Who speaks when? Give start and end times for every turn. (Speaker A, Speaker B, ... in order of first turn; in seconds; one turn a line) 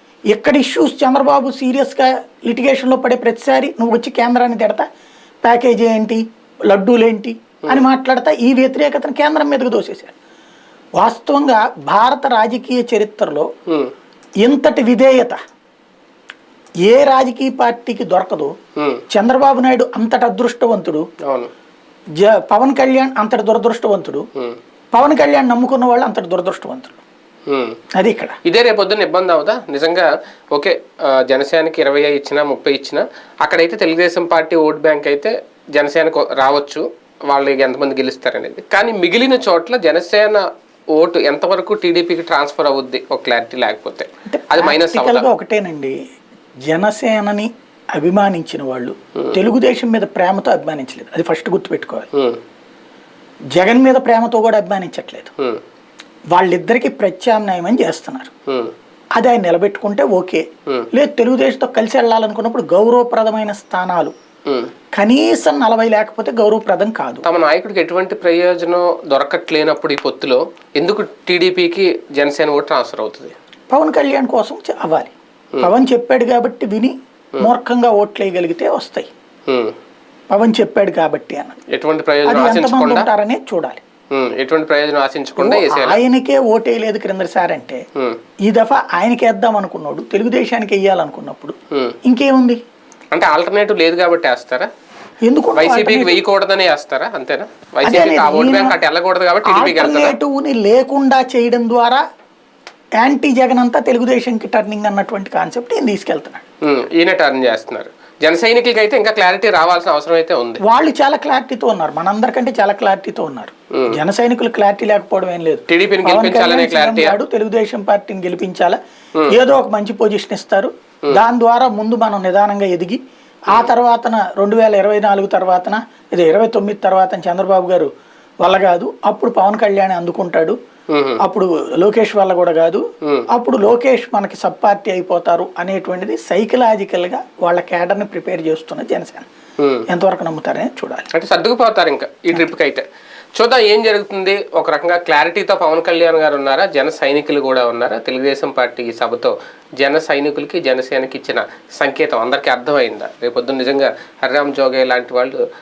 Speaker A: 0.3-4.8
Speaker A: 5.4-10.1
Speaker A: 11.0-13.5
Speaker A: 14.4-15.4
Speaker A: 16.9-18.5
Speaker B: 18.8-19.0
Speaker A: 19.1-21.0
Speaker A: 22.2-24.2
Speaker A: 24.9-27.0
Speaker B: 27.5-27.8
Speaker A: 27.9-28.4
Speaker B: 28.4-40.4
Speaker B: 41.0-45.3
Speaker A: 44.3-46.0
Speaker A: 46.7-52.1
Speaker A: 53.5-55.3
Speaker A: 56.3-58.3
Speaker B: 58.5-58.7
Speaker A: 59.2-60.4
Speaker A: 60.9-64.1
Speaker A: 65.0-67.2
Speaker B: 67.2-73.3
Speaker A: 73.7-79.1
Speaker B: 79.5-79.8
Speaker A: 80.3-81.6
Speaker B: 81.7-83.1
Speaker A: 82.2-83.8
Speaker B: 84.1-86.0
Speaker A: 85.4-87.8
Speaker A: 88.5-91.5
Speaker A: 92.0-92.6
Speaker B: 93.1-94.7
Speaker A: 95.2-96.2
Speaker B: 95.5-100.1
Speaker A: 97.8-98.8
Speaker A: 99.4-102.0
Speaker A: 103.0-106.4
Speaker B: 106.6-110.6
Speaker A: 110.6-118.8
Speaker B: 115.7-117.2
Speaker A: 119.3-123.0
Speaker A: 123.5-127.9
Speaker A: 128.4-130.6
Speaker B: 130.9-131.2
Speaker A: 131.2-139.2
Speaker B: 139.6-139.8
Speaker A: 139.9-141.1
Speaker B: 141.1-142.8
Speaker B: 143.4-155.4